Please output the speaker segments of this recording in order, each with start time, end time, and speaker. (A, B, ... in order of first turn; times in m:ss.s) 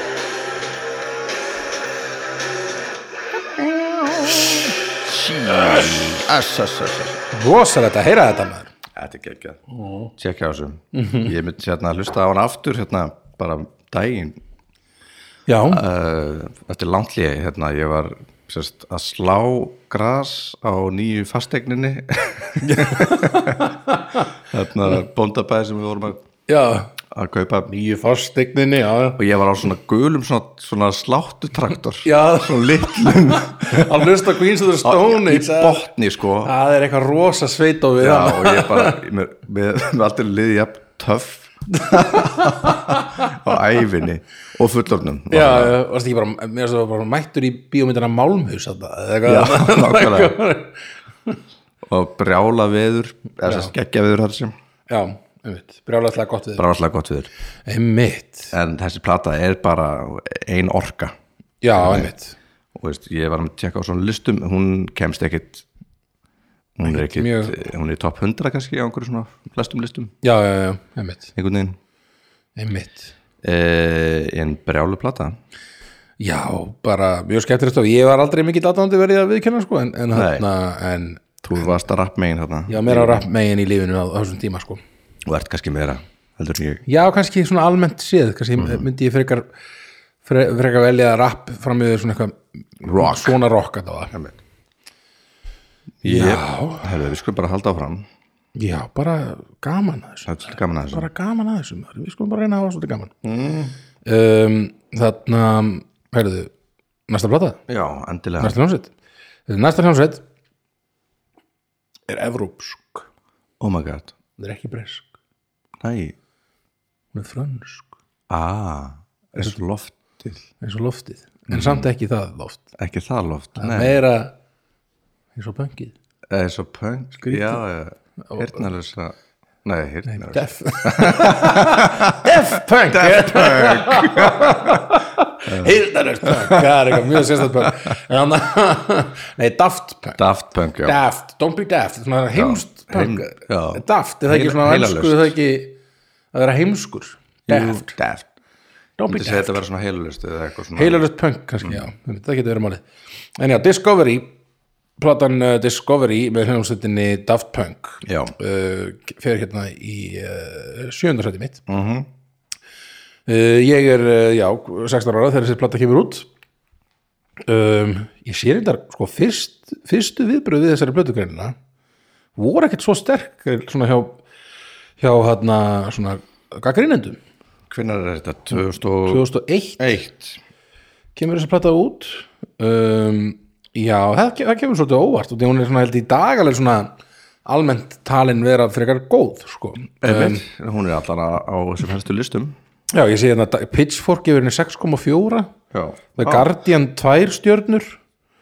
0:03.6-0:07.2 A
0:07.3-0:08.7 B
0:08.9-0:14.4 A
0:10.9-0:11.3 B
0:15.5-0:15.8 B
0:15.7-0:23.7 A
0:22.6-0:24.2 B
0:24.5-0:26.2 A
0:26.5-0:26.9 B
0:27.1-0:27.7 A
0:27.7-0:29.2 B
0:29.2-0:34.2 A
0:32.0-0:35.8 B
0:34.8-0:36.5 A
0:36.4-0:39.0 B
0:38.0-0:45.7 A
0:41.8-0:43.0 B
0:45.3-0:51.4 B
0:49.2-0:50.4 A
0:51.8-0:54.5 A
0:53.4-0:53.7 B
0:54.9-0:56.6 B
0:56.6-0:57.3 A
0:57.7-0:58.5 B
0:58.5-1:01.1 A
1:01.6-1:02.4 B
1:01.8-1:02.1 A
1:02.7-1:05.6 A
1:06.8-1:10.1 A
1:06.8-1:07.6 B
1:10.2-1:11.3 B
1:11.3-1:11.8 A
1:12.6-1:13.1 B
1:13.4-1:15.4 A
1:16.2-1:21.7 B
1:20.1-1:20.4 A
1:21.4-1:23.2 A
1:22.7-1:24.8 B
1:25.2-1:26.8 A
1:26.9-1:29.5 B
1:28.6-1:28.8 A
1:30.2-1:34.1 B
1:32.8-1:33.4 A
1:34.1-1:34.4 A
1:36.0-1:38.0 A
1:36.0-1:36.9 B
1:38.6-1:43.1 B
1:40.2-1:41.1 A
1:43.2-1:43.8 A
1:44.0-1:46.5 B
1:47.1-1:47.6 B
1:47.7-1:48.6 A
1:48.4-1:48.9 B
1:49.5-1:50.2 B
1:52.1-1:53.1 B
1:53.6-1:54.1 A
1:54.4-1:55.1 B
1:55.8-1:56.1 A
1:57.1-1:57.9 B
1:58.3-2:00.4 A
2:00.6-2:02.7 B
2:01.5-2:01.9 A
2:02.8-2:04.0 A
2:03.6-2:04.3 B
2:05.3-2:05.9 B
2:06.3-2:17.7 A
2:07.2-2:07.6 B
2:08.3-2:08.6 B
2:10.1-2:20.2 B
2:20.2-2:21.0 A
2:20.8-2:25.8 B
2:22.3-2:25.3 A
2:26.3-2:28.0 B
2:27.5-2:28.3 A
2:29.0-2:29.6 B
2:29.1-2:31.0 A
2:30.7-2:32.8 B
2:33.4-2:34.3 B
2:35.0-2:41.6 B
2:38.0-2:38.3 A
2:41.7-2:42.1 A
2:43.3-2:46.3 B
2:47.4-2:51.6 B
2:52.4-2:54.2 B
2:55.0-2:57.2 B
2:57.7-2:59.2 A
2:59.1-2:59.9 B
2:59.8-3:00.4 A
3:01.1-3:06.9 B
3:07.4-3:10.4 B
3:10.0-3:12.6 A
3:12.9-3:15.5 B
3:15.7-3:16.5 A
3:16.2-3:18.0 B